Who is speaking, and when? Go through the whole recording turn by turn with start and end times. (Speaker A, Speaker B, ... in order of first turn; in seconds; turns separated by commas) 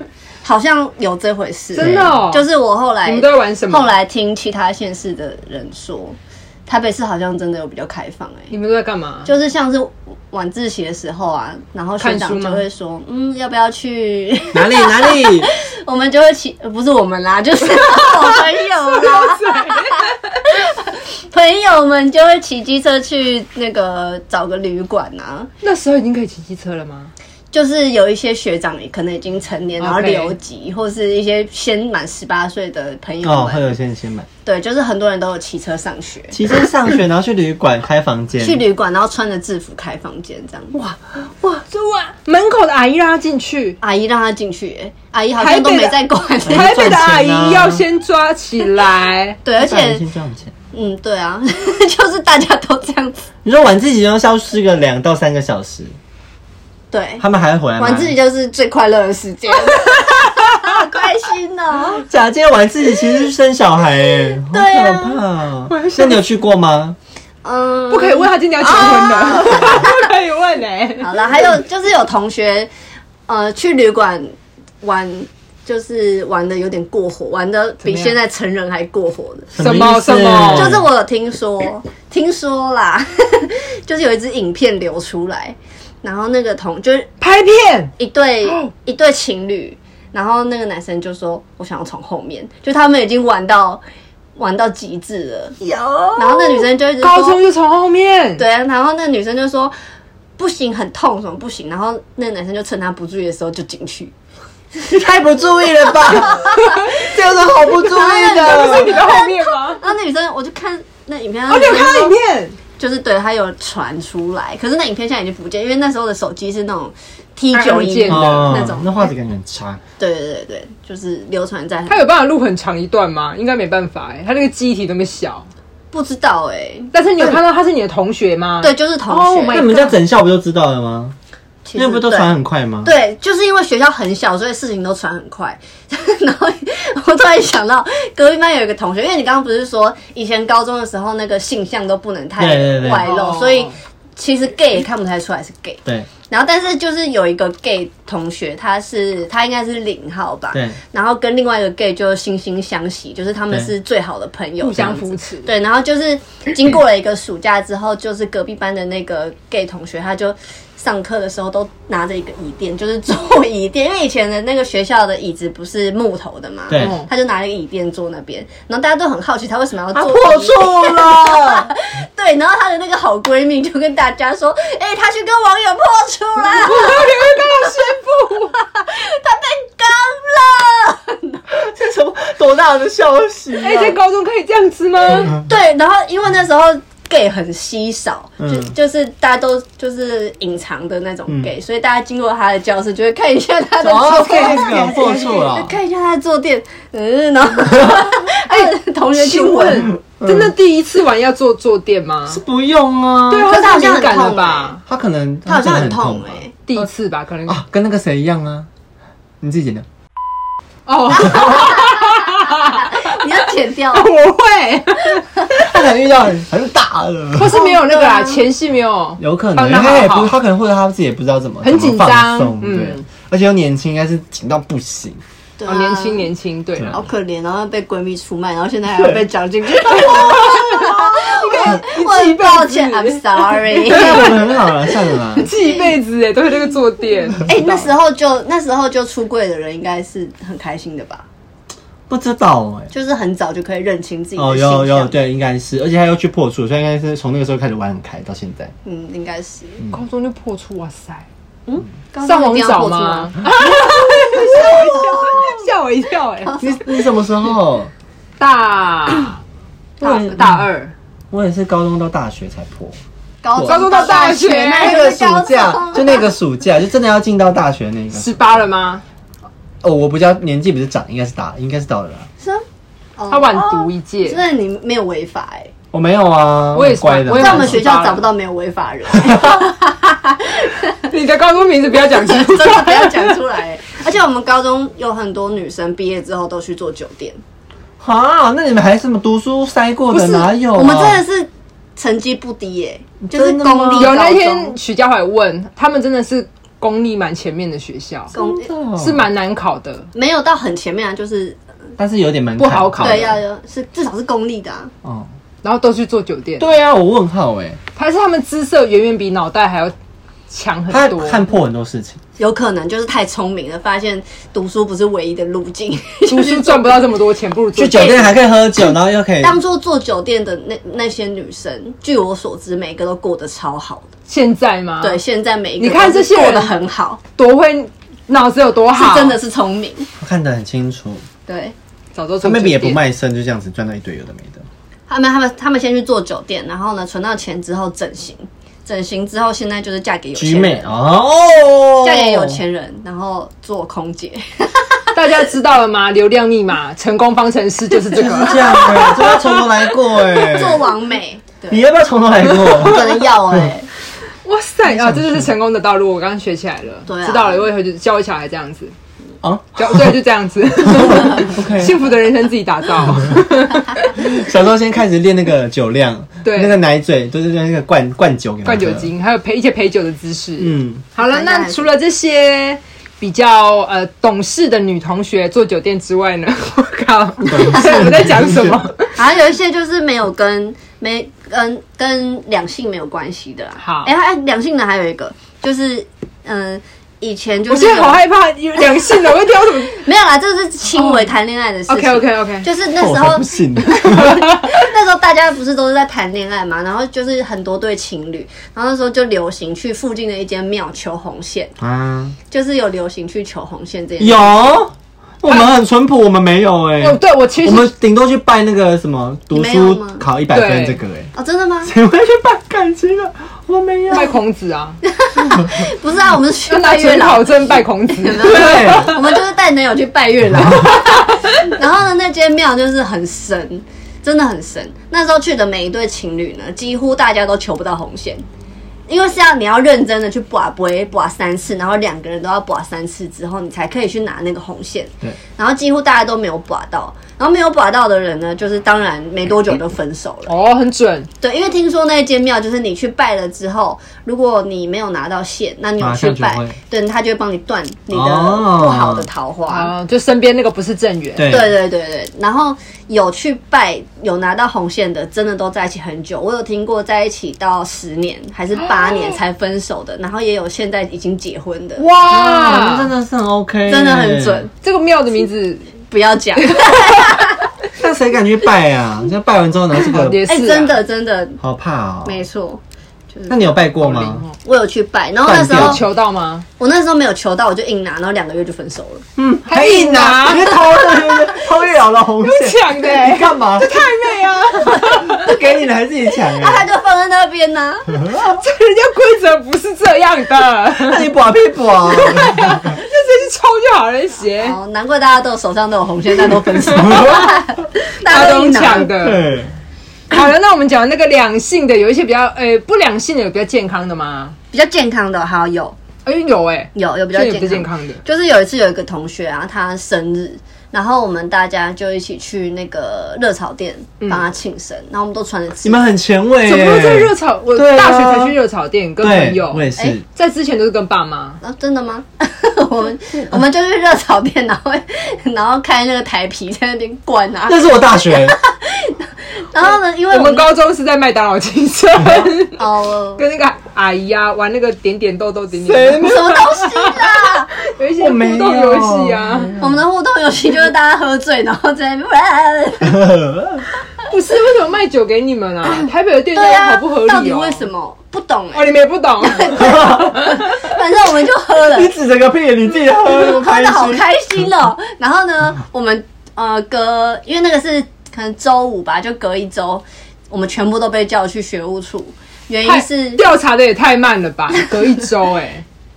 Speaker A: 0.4-8.5, Speaker B: 1.7-2.5, Speaker C: 1.8-2.2, Speaker B: 3.0-3.9, Speaker B: 8.5-9.3, Speaker A: 9.2-25.5, Speaker B: 12.0-12.6, Speaker C: 14.5-15.5, Speaker B: 18.9-20.1, Speaker B: 25.6-27.1, Speaker A: 27.5-33.7, Speaker B: 29.8-30.4, Speaker C: 33.2-34.3, Speaker A: 34.4-36.4, Speaker C: 36.3-38.6, Speaker A: 38.4-40.8, Speaker C: 40.8-41.5, Speaker B: 41.4-43.8, Speaker A: 43.8-46.8, Speaker B: 45.4-49.4, Speaker C: 46.5-47.8, Speaker A: 49.4-50.0, Speaker C: 49.6-50.5, Speaker A: 50.7-53.2, Speaker C: 53.4-55.9, Speaker A: 56.9-57.2, Speaker C: 57.2-58.1, Speaker A: 57.8-62.0, Speaker C: 62.0-67.0, Speaker A: 64.4-65.2, Speaker B: 65.7-66.2, Speaker A: 67.4-70.1, Speaker B: 67.9-71.4, Speaker A: 71.0-72.7, Speaker A: 73.3-79.5, Speaker B: 77.8-78.2, Speaker C: 79.5-80.8, Speaker B: 79.6-80.8, Speaker A: 80.5-87.1, Speaker B: 87.2-87.9, Speaker A: 88.0-93.8, Speaker B: 88.4-88.7, Speaker A: 94.3-95.6, Speaker B: 95.6-98.4, Speaker A: 96.2-97.4, Speaker A: 98.4-99.7, Speaker A: 100.4-104.1, Speaker C: 104.8-109.0, Speaker A: 106.2-106.8, Speaker A: 107.7-112.2, Speaker B: 108.1-109.8, Speaker B: 111.5-112.6, Speaker A: 112.8-119.1, Speaker B: 117.5-118.7, Speaker C: 118.1-119.8, Speaker A: 120.0-122.0, Speaker B: 121.9-125.5, Speaker A: 125.9-127.4, Speaker B: 126.9-130.0, Speaker A: 128.6-129.7, Speaker C: 129.5-131.1, Speaker A: 131.6-177.9, Speaker C: 131.8-132.9, Speaker C: 142.4-143.1, Speaker B: 143.0-143.7, Speaker C: 150.5-150.8, Speaker B: 154.6-155.5, Speaker C: 166.7-167.0, Speaker B: 166.8-167.1, Speaker C: 169.9-171.7, Speaker B: 176.4-178.6, Speaker A: 178.5-181.4, Speaker C: 181.5-184.0, Speaker B: 183.6-185.4, Speaker A: 185.3-199.9, Speaker C: 188.4-188.7, Speaker C: 193.8-195.7, Speaker B: 194.1-195.3, Speaker C: 197.7-198.0, Speaker B: 199.2-202.4, Speaker C: 199.7-200.5, Speaker C: 202.3-203.6, Speaker B: 203.3-204.8, Speaker A: 203.4-204.8, Speaker C: 204.8-206.9, Speaker A: 205.4-206.5, Speaker B: 206.7-207.6, Speaker C: 207.5-208.7, Speaker C: 209.4-209.8, Speaker B: 210.8-213.3, Speaker A: 211.1-214.1, Speaker C: 211.2-211.7, Speaker B: 213.9-215.3, Speaker A: 215.2-215.5, Speaker C: 215.5-217.6, Speaker B: 217.3-220.3, Speaker A: 217.5-218.4, Speaker C: 219.2-225.2, Speaker B: 221.6-223.0, Speaker A: 225.6-226.3, Speaker B: 225.7-227.0, Speaker A: 226.9-234.4, Speaker B: 229.9-234.4, Speaker C: 233.9-235.5, Speaker B: 235.3-237.9, Speaker A: 235.4-235.9, Speaker A: 237.4-241.3, Speaker C: 242.1-242.9, Speaker A: 242.9-245.2, Speaker C: 244.4-248.7, Speaker A: 248.8-249.8, Speaker B: 249.9-251.3, Speaker A: 251.7-255.6, Speaker B: 252.2-256.6, Speaker A: 256.4-257.0, Speaker C: 256.6-257.9, Speaker B: 258.4-259.4, Speaker C: 260.0-260.6, Speaker A: 260.0-260.5, Speaker B: 260.0-260.9, Speaker C: 261.3-263.0, Speaker A: 263.4-266.3, Speaker C: 263.5-264.0, Speaker B: 263.6-265.0, Speaker C: 264.7-268.4, Speaker B: 268.1-269.0, Speaker C: 269.8-272.3, Speaker A: 273.2-275.7, Speaker B: 273.3-274.4, Speaker C: 275.9-277.9, Speaker B: 276.7-278.3, Speaker A: 277.3-281.1, Speaker C: 279.2-279.6, Speaker B: 281.0-283.4, Speaker A: 282.1-287.4, Speaker C: 288.0-291.2, Speaker A: 290.1-294.8, Speaker C: 293.2-294.1, Speaker B: 293.9-298.3, Speaker A: 298.3-298.7, Speaker C: 298.3-299.2, Speaker B: 299.0-300.1, Speaker A: 300.1-301.6, Speaker C: 302.0-303.4, Speaker B: 302.6-303.4, Speaker A: 303.0-304.9, Speaker B: 305.6-306.7, Speaker C: 306.6-307.8, Speaker B: 307.9-309.9, Speaker B: 310.5-311.4, Speaker C: 310.9-312.2, Speaker A: 312.4-317.0, Speaker B: 316.3-318.3, Speaker C: 317.7-319.6, Speaker A: 319.4-324.1, Speaker B: 324.3-325.2, Speaker A: 325.0-327.2, Speaker B: 325.8-326.7, Speaker B: 327.4-329.4, Speaker A: 328.9-330.1, Speaker C: 330.2-331.2, Speaker A: 331.5-331.7, Speaker B: 332.1-333.0, Speaker C: 332.4-334.6, Speaker A: 335.1-340.9, Speaker C: 340.3-342.6, Speaker A: 342.0-345.4, Speaker B: 345.1-349.9, Speaker C: 348.1-350.8, Speaker A: 348.5-348.8, Speaker A: 350.3-351.8, Speaker C: 351.7-353.7, Speaker A: 352.8-353.9, Speaker B: 354.4-358.9, Speaker C: 354.8-355.5, Speaker A: 357.1-357.7, Speaker C: 359.4-360.2, Speaker B: 359.8-364.3, Speaker C: 360.8-362.0, Speaker C: 363.2-363.4, Speaker C: 364.1-369.1, Speaker B: 366.4-366.8, Speaker B: 368.6-379.1, Speaker C: 370.6-371.0, Speaker A: 371.2-371.9, Speaker C: 377.4-378.8, Speaker A: 377.6-378.2, Speaker A: 379.1-388.2, Speaker B: 383.8-384.1, Speaker B: 387.7-390.1, Speaker A: 389.9-401.7, Speaker B: 390.9-391.3, Speaker B: 391.9-392.7, Speaker C: 392.9-394.6, Speaker C: 401.8-402.4, Speaker A: 402.5-404.8, Speaker C: 404.2-411.3, Speaker B: 405.5-405.7, Speaker B: 407.0-407.9, Speaker A: 409.5-410.2, Speaker B: 410.5-411.0, Speaker A: 411.3-411.9, Speaker C: 411.8-414.4, Speaker B: 414.1-415.0, Speaker A: 415.0-428.4, Speaker B: 416.7-419.3, Speaker C: 418.4-419.2, Speaker A: 429.1-440.5, Speaker B: 440.5-441.3, Speaker A: 441.4-449.9, Speaker C: 446.0-446.8, Speaker C: 448.1-449.3, Speaker B: 449.7-451.5, Speaker C: 451.4-451.7, Speaker A: 451.5-462.0, Speaker B: 458.9-459.4, Speaker B: 462.0-463.1, Speaker C: 462.2-464.7, Speaker A: 463.9-464.7, Speaker B: 464.8-465.9, Speaker A: 466.1-467.7, Speaker B: 466.6-467.3, Speaker C: 467.9-470.4, Speaker B: 470.0-471.0, Speaker A: 470.4-471.6, Speaker C: 471.6-472.4, Speaker A: 472.2-472.8, Speaker A: 473.3-473.8, Speaker C: 473.5-474.4, Speaker B: 474.0-474.5, Speaker A: 474.6-476.0, Speaker C: 475.4-476.0, Speaker B: 475.6-476.6, Speaker A: 476.8-479.2, Speaker C: 479.4-484.0, Speaker B: 479.7-480.9, Speaker B: 482.4-485.6, Speaker A: 484.9-485.2, Speaker C: 485.1-486.9, Speaker A: 486.4-488.3, Speaker C: 488.1-488.6, Speaker B: 488.3-491.3, Speaker C: 490.9-493.0, Speaker B: 492.1-494.8, Speaker A: 494.6-499.1, Speaker C: 496.9-497.5, Speaker B: 497.1-497.4, Speaker B: 498.2-499.4, Speaker C: 499.1-499.7, Speaker B: 500.3-504.6, Speaker A: 504.7-506.0, Speaker B: 506.2-508.2, Speaker A: 506.9-516.1, Speaker B: 514.2-514.5, Speaker C: 515.8-518.6, Speaker B: 516.6-521.6, Speaker C: 519.2-520.2, Speaker A: 521.6-530.7, Speaker C: 527.7-528.6, Speaker B: 529.9-539.7, Speaker A: 532.8-533.4, Speaker A: 535.9-537.7, Speaker C: 538.2-540.0, Speaker A: 539.8-543.3, Speaker C: 543.0-543.8, Speaker B: 544.3-547.9, Speaker A: 545.9-552.1, Speaker B: 548.7-550.9, Speaker C: 549.8-550.3, Speaker C: 551.9-554.2, Speaker A: 553.2-563.4, Speaker B: 562.8-565.8